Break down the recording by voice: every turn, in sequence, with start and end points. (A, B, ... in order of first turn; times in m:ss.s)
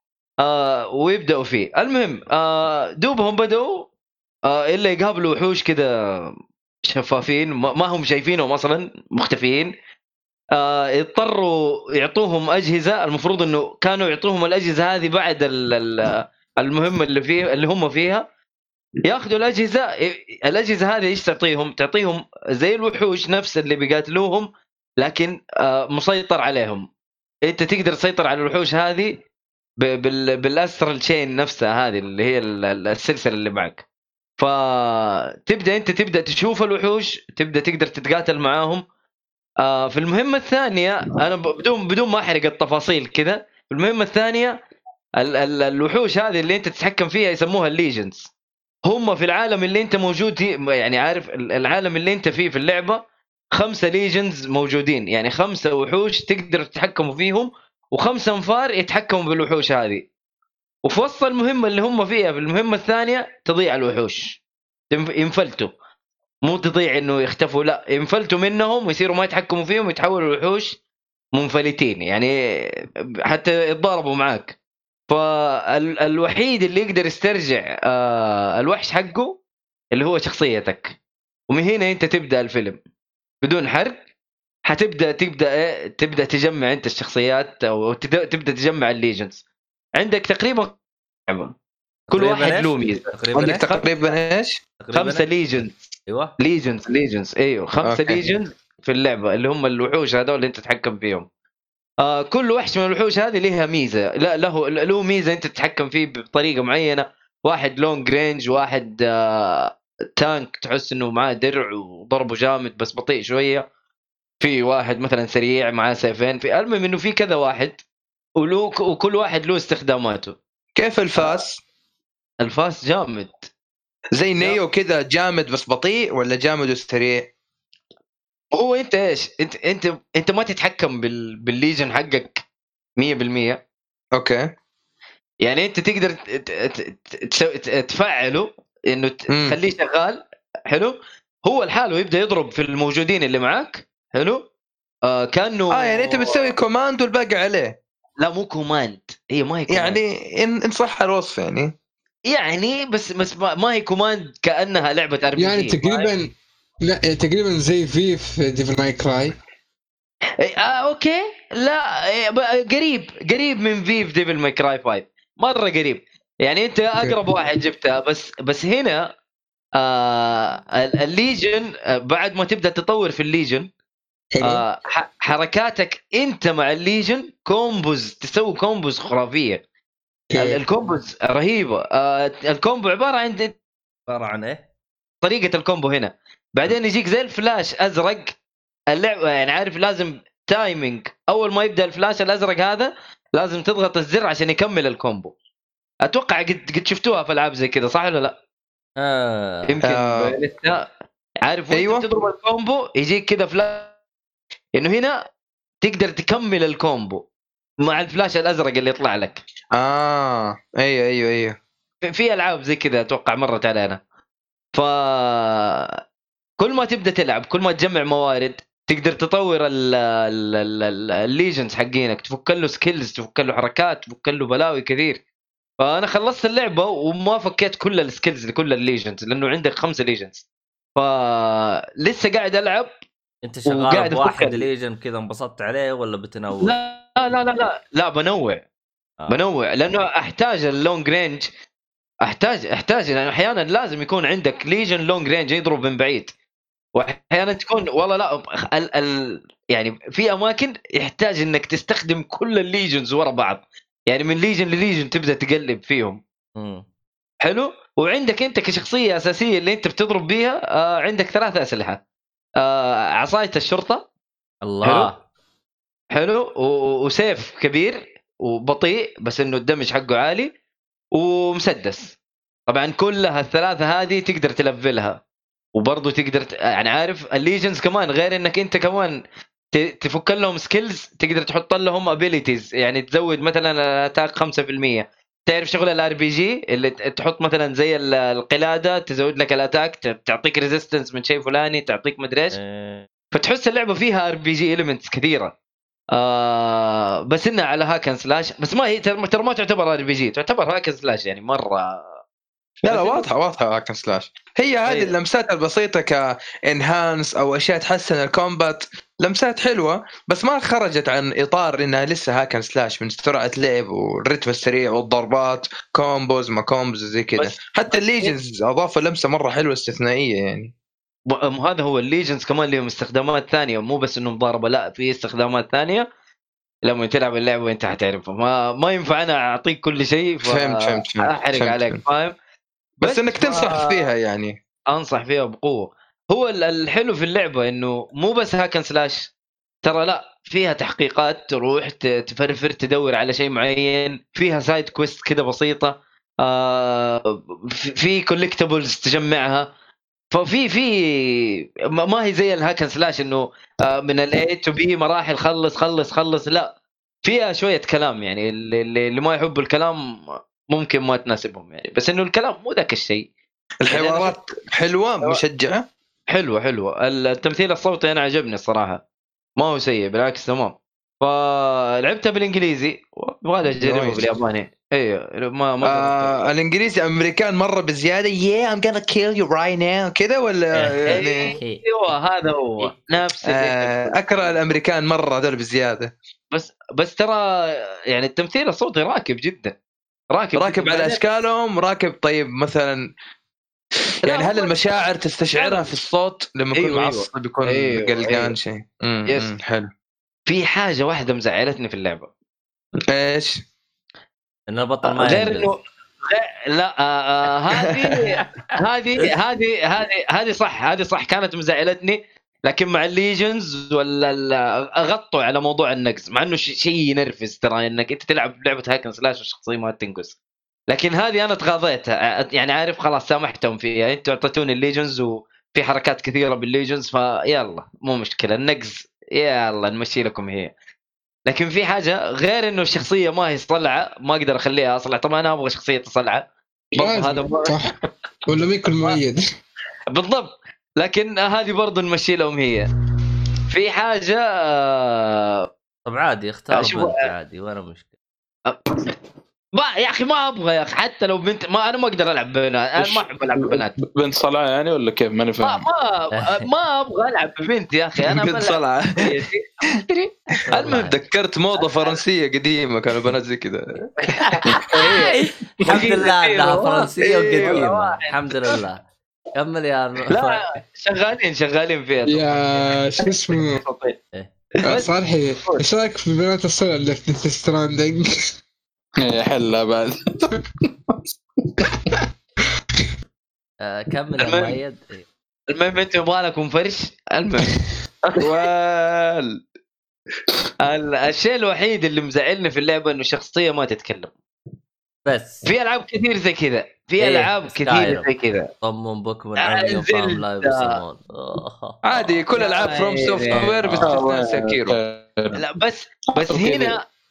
0:00.4-0:03.9 A
0:04.5-0:06.3 A
0:06.8-0:09.7 A
0:10.6-0:18.2 A
0:19.0-0:24.5 A
0:25.0-0:26.9 A
0:27.5-0:29.2 A
0:29.8-0:33.8 A
0:34.4-0:38.8 A
0:39.6-0:44.6 A
0:45.2-0:48.3 A
0:48.9-0:53.0 A
0:53.5-1:00.1 A
1:00.8-1:04.4 A
1:04.9-1:05.7 A
1:06.5-1:10.8 A
1:11.4-1:12.3 A
1:13.3-1:14.6 A
1:15.1-1:19.4 A
1:19.9-1:21.0 A
1:21.5-1:22.8 A
1:23.4-1:24.0 A
1:24.7-1:29.4 A
1:30.0-1:30.7 A
1:31.3-1:31.5 A
1:32.1-1:33.8 B
1:32.1-1:33.1 A
1:33.4-1:34.6 C
1:34.8-1:35.3 B
1:34.9-1:35.7 A
1:36.1-1:36.3 B
1:36.4-1:41.3 A
1:37.8-1:38.2 C
1:42.0-1:53.6 A
1:54.4-1:57.8 A
1:58.4-2:00.4 A
2:00.8-2:01.6 C
2:02.4-2:03.5 A
2:04.2-2:07.3 C
2:08.5-2:12.4 A
2:13.0-2:13.6 A
2:14.2-2:14.4 C
2:15.4-2:24.4 A
2:19.3-2:19.6 C
2:25.1-2:26.4 A
2:25.7-2:27.8 C
2:28.2-2:30.0 A
2:29.7-2:31.7 C
2:32.3-2:36.1 A
2:35.4-2:36.3 D
2:36.8-2:39.4 D
2:40.4-2:49.1 A
2:49.8-2:53.7 A
2:54.3-2:54.6 D
2:54.4-2:59.6 A
3:00.3-3:00.6 D
3:00.4-3:03.5 A
3:04.1-3:04.6 B
3:05.2-3:08.4 A
3:08.9-3:15.3 A
3:16.0-3:18.4 A
3:19.0-3:19.8 B
3:19.7-3:20.9 A
3:19.8-3:20.4 C
3:21.4-3:23.9 A
3:21.7-3:22.1 C
3:24.8-3:25.2 A
3:25.8-3:27.2 A
3:27.8-3:29.4 A
3:29.8-3:31.6 C
3:32.1-3:34.0 A
3:34.8-3:35.9 A
3:36.6-3:45.2 A
3:45.8-3:50.4 A
3:51.0-3:52.9 A
3:53.4-3:56.8 B
3:53.7-3:54.7 A
3:56.6-3:58.6 A
3:59.3-4:01.5 A
4:02.2-4:06.3 A
4:07.0-4:16.2 A
4:16.6-4:16.8 B
4:17.4-4:22.0 A
4:22.6-4:24.0 A
4:24.6-4:25.2 B
4:24.8-4:25.1 A
4:26.1-4:30.5 A
4:31.2-4:32.1 A
4:32.7-4:35.2 A
4:35.8-4:39.2 A
4:39.7-4:52.6 A
4:52.5-4:53.1 B
4:53.3-4:55.5 A
4:56.1-5:02.0 A
5:02.8-5:20.7 C
5:02.9-5:03.3 A
5:04.9-5:05.1 A
5:17.4-5:18.4 A
5:21.3-5:26.1 A
5:26.8-5:32.3 A
5:30.4-5:32.0 C
5:33.0-5:34.5 C
5:33.0-5:34.0 A
5:34.9-5:39.3 A
5:39.8-5:49.7 A
5:50.3-5:56.7 A
5:57.2-6:03.3 A
6:03.8-6:05.8 C
6:03.9-6:04.4 A
6:06.3-6:09.0 A
6:09.6-6:16.5 A
6:13.8-6:14.2 C
6:15.8-6:21.6 C
6:20.8-6:21.8 B
6:21.1-6:24.3 A
6:23.5-6:26.1 C
6:26.5-6:29.8 A
6:30.3-6:31.2 A
6:30.6-6:33.0 C
6:34.2-6:39.9 C
6:34.3-6:35.0 A
6:35.6-6:35.8 A
6:36.7-6:38.6 A
6:40.5-6:42.3 A
6:43.1-6:43.6 C
6:44.7-6:45.7 B
6:45.1-7:00.4 A
6:47.7-6:48.4 C
7:00.9-7:10.7 A
7:11.5-7:17.8 A
7:17.0-7:18.0 D
7:18.5-7:19.4 D
7:20.1-7:22.9 A
7:23.7-7:25.7 A
7:26.1-7:28.1 B
7:26.7-7:27.3 A
7:28.7-7:29.1 A
7:29.7-7:34.0 A
7:33.0-7:35.9 E
7:35.6-7:39.7 A
7:36.4-7:36.6 B
7:38.2-7:39.4 C
7:40.2-7:45.3 C
7:40.7-7:41.2 B
7:40.8-7:41.0 A
7:41.8-7:42.2 A
7:44.4-7:48.3 A
7:45.4-7:49.0 B
7:45.9-7:46.2 C
7:47.2-7:47.8 C
7:49.6-7:50.6 B
7:50.3-7:54.2 A
7:52.3-7:53.8 D
7:54.3-7:54.7 B
7:54.8-7:55.1 A
7:54.8-7:58.6 D
7:59.2-8:00.3 E
8:03.8-8:05.3 B
8:04.4-8:04.8 A
8:05.7-8:08.5 A
8:08.4-8:09.6 C
8:10.8-8:14.3 A
8:15.3-8:15.7 B
8:15.6-8:18.7 A
8:17.2-8:18.3 B
8:18.8-8:22.0 B
8:19.6-8:21.0 A
8:22.0-8:25.0 C
8:22.6-8:24.0 A
8:23.7-8:25.6 E
8:25.6-8:27.0 A
8:26.4-8:26.8 E